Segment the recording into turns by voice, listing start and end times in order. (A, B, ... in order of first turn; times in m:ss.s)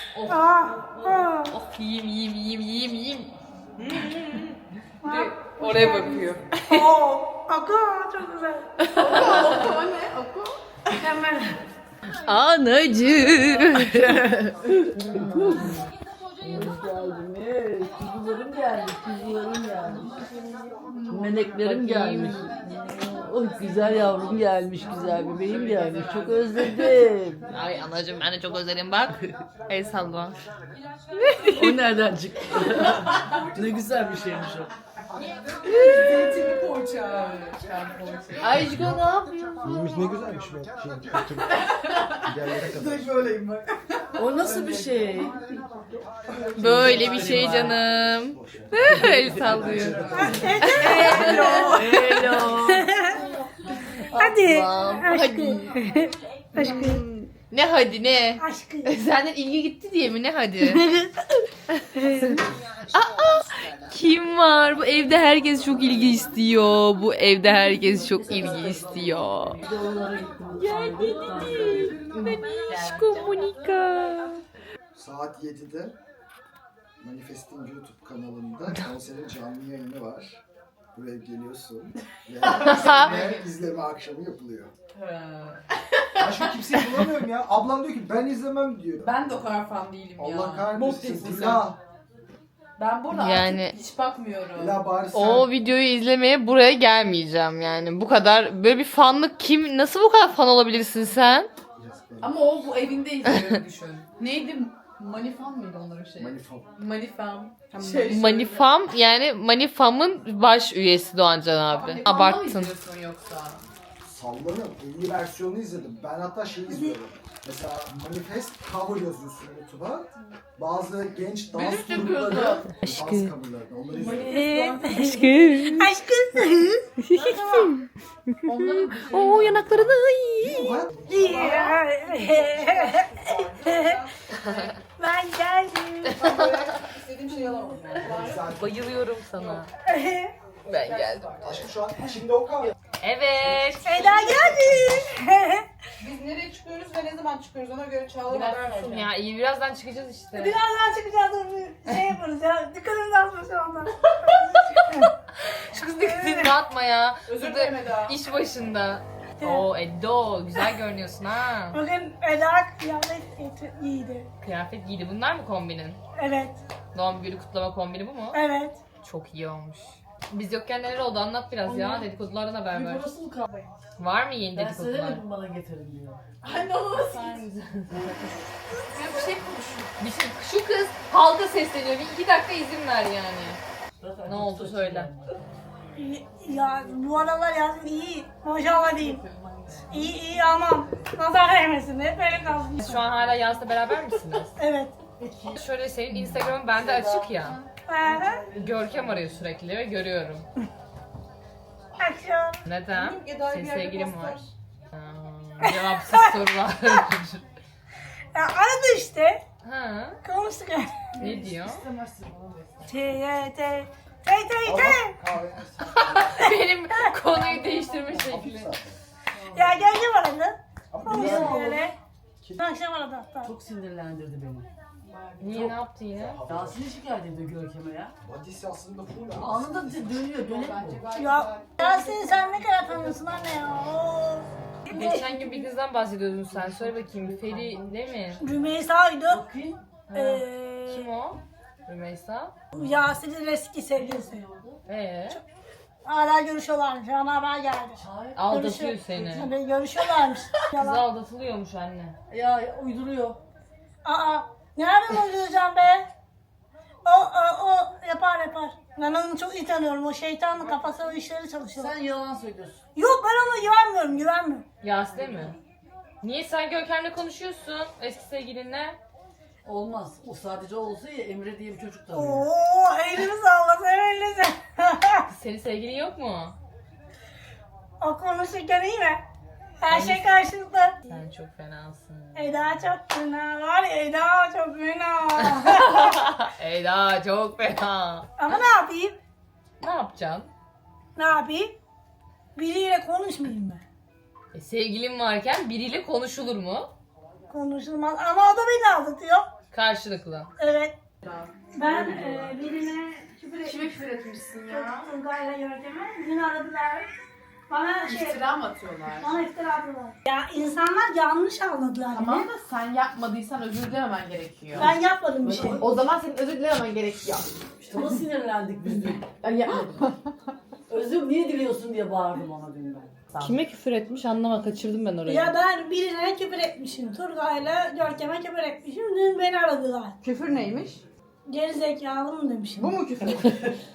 0:00.3-0:01.5 A
0:01.4-0:04.5 B
0:05.0-0:08.6 A
0:05.0-0:06.9 B
0:09.0-0:10.5 C
0:09.1-0:09.7 D
0:10.9-0:11.6 A
0:12.3-0:14.4 B
0:14.2-0:15.8 D
0:14.9-0:15.9 B
0:16.4-0:16.8 B
0:16.5-0:20.2 D
0:21.1-0:27.5 D
0:21.6-0:22.5 B
0:27.5-0:30.4 B
0:31.2-0:31.7 B
0:31.5-0:34.7 D
0:35.7-0:38.8 C
0:35.9-0:36.8 E
0:38.4-0:39.6 B
0:38.7-0:39.0 F
0:39.6-0:41.6 F
0:41.6-0:42.1 C
0:42.2-0:43.3 F
0:44.2-0:45.4 D
0:46.6-0:52.8 B
0:46.6-0:50.9 F
0:47.2-0:47.7 D
0:50.1-0:52.0 A
0:50.7-0:52.6 C
0:51.9-0:52.3 D
0:52.6-0:53.4 A
0:54.2-0:55.8 B
0:54.2-0:57.0 A
0:56.6-0:58.4 B
0:58.4-0:59.0 A
0:59.0-0:59.3 C
0:59.0-1:00.8 B
1:00.6-1:01.4 A
1:01.7-1:02.3 B
1:02.0-1:02.4 A
1:02.9-1:09.6 B
1:07.7-1:12.0 D
1:10.6-1:14.4 B
1:12.3-1:12.6 A
1:14.9-1:16.0 F
1:17.0-1:20.4 F
1:20.9-1:24.7 F
1:22.4-1:23.4 C
1:22.7-1:23.1 B
1:24.9-1:27.1 C
1:26.2-1:29.2 F
1:29.0-1:31.7 C
1:30.2-1:31.8 F
1:32.8-1:34.8 C
1:33.1-1:33.8 B
1:34.6-1:35.5 F
1:35.1-1:41.5 B
1:41.8-1:42.6 F
1:42.2-1:48.6 C
1:46.2-1:46.7 F
1:47.8-1:48.2 E
1:48.1-1:52.7 B
1:51.7-1:53.6 C
1:54.0-2:04.3 F
1:56.7-1:57.0 A
2:01.5-2:02.7 C
2:02.8-2:03.3 B
2:04.0-2:04.8 C
2:04.1-2:04.6 E
2:04.2-2:07.7 A
2:04.9-2:05.9 B
2:07.1-2:10.8 B
2:08.4-2:09.7 C
2:10.4-2:11.2 F
2:11.1-2:14.1 A
2:11.2-2:14.6 E
2:14.3-2:14.7 B
2:15.0-2:16.5 A
2:16.2-2:18.5 E
2:16.2-2:16.6 B
2:17.3-2:17.8 A
2:18.1-2:18.8 F
2:18.5-2:19.7 B
2:19.9-2:20.3 A
2:20.7-2:21.4 B
2:20.8-2:21.6 E
2:21.4-2:22.7 F
2:23.0-2:24.4 B
2:23.8-2:25.7 A
2:24.6-2:24.9 F
2:26.0-2:29.1 E
2:28.3-2:30.6 B
2:30.4-2:35.1 A
2:35.5-2:41.8 B
2:36.0-2:36.6 A
2:37.3-2:37.6 E
2:37.3-2:38.1 C
2:39.4-2:39.7 A
2:41.7-2:44.3 A
2:44.4-2:46.0 B
2:46.2-2:46.6 A
2:46.9-2:48.4 B
2:48.3-2:48.8 A
2:49.0-2:53.1 B
2:51.6-2:52.1 D
2:52.7-2:53.7 D
2:54.0-2:55.2 B
2:54.5-2:56.2 D
2:56.4-2:57.4 C
2:56.6-2:58.4 B
2:58.9-2:59.9 C
3:00.0-3:03.6 B
3:04.0-3:05.3 D
3:04.2-3:05.1 B
3:06.0-3:09.2 A
3:08.7-3:10.8 C
3:09.9-3:13.0 A
3:12.8-3:14.5 B
3:14.6-3:15.0 A
3:15.1-3:15.6 D
3:15.5-3:17.6 B
3:16.1-3:19.5 D
3:17.9-3:18.4 A
3:18.5-3:20.5 B
3:22.0-3:22.6 A
3:22.6-3:27.4 B
3:22.9-3:24.5 E
3:25.6-3:26.4 A
3:28.3-3:29.4 A
3:29.6-3:30.2 B
3:30.2-3:31.0 A
3:31.2-3:31.8 B
3:31.2-3:32.5 C
3:31.3-3:32.5 D
3:32.9-3:35.2 A
3:34.6-3:36.1 F
3:35.9-3:38.7 B
3:36.4-3:37.8 A
3:38.2-3:38.9 F
3:39.5-3:42.0 A
3:40.9-3:41.6 F
3:41.1-3:41.9 D
3:42.6-3:43.5 A
3:43.4-3:44.7 D
3:45.4-3:46.4 B
3:45.4-3:45.8 D
3:46.2-3:46.8 F
3:46.5-3:48.1 D
3:48.2-3:50.2 F
3:49.4-3:51.2 D
3:51.1-3:55.6 A
3:51.4-3:51.9 E
3:54.9-3:58.4 B
3:58.4-3:59.4 A
3:59.3-3:59.8 D
4:00.1-4:02.6 B
4:00.1-4:01.1 A
4:02.7-4:04.4 A
4:04.0-4:04.8 D
4:04.9-4:05.4 B
4:06.0-4:11.0 A
4:08.0-4:08.5 D
4:08.4-4:09.5 B
4:10.8-4:12.2 B
4:12.3-4:13.4 D
4:14.0-4:16.0 A
4:17.0-4:21.9 A
4:21.8-4:22.8 D
4:23.0-4:24.6 A
4:24.8-4:25.6 B
4:26.2-4:29.0 B
4:29.6-4:32.4 D
4:32.1-4:35.3 A
4:35.3-4:36.6 B
4:38.0-4:39.2 A
4:39.8-4:41.0 A
4:39.9-4:40.4 B
4:41.1-4:42.8 B
4:42.4-4:46.2 A
4:45.4-4:48.6 B
4:48.4-4:49.2 A
4:49.8-4:50.5 B
4:51.2-4:51.8 A
4:52.6-4:53.8 A
4:54.5-4:56.9 B
4:57.5-4:59.5 A
4:59.7-5:00.5 B
5:00.6-5:01.0 A
5:01.2-5:02.6 C
5:01.7-5:03.9 A
5:03.6-5:05.1 C
5:04.7-5:07.1 A
5:07.7-5:08.4 A
5:08.0-5:09.4 C
5:09.1-5:12.5 A
5:12.1-5:15.0 C
5:14.8-5:15.8 A
5:14.8-5:15.9 D
5:15.8-5:17.5 C
5:17.8-5:19.3 D
5:19.4-5:20.1 C
5:20.9-5:23.2 D
5:23.4-5:25.5 B
5:25.3-5:30.2 A
5:30.2-5:31.0 E
5:31.5-5:33.0 A
5:32.8-5:33.7 E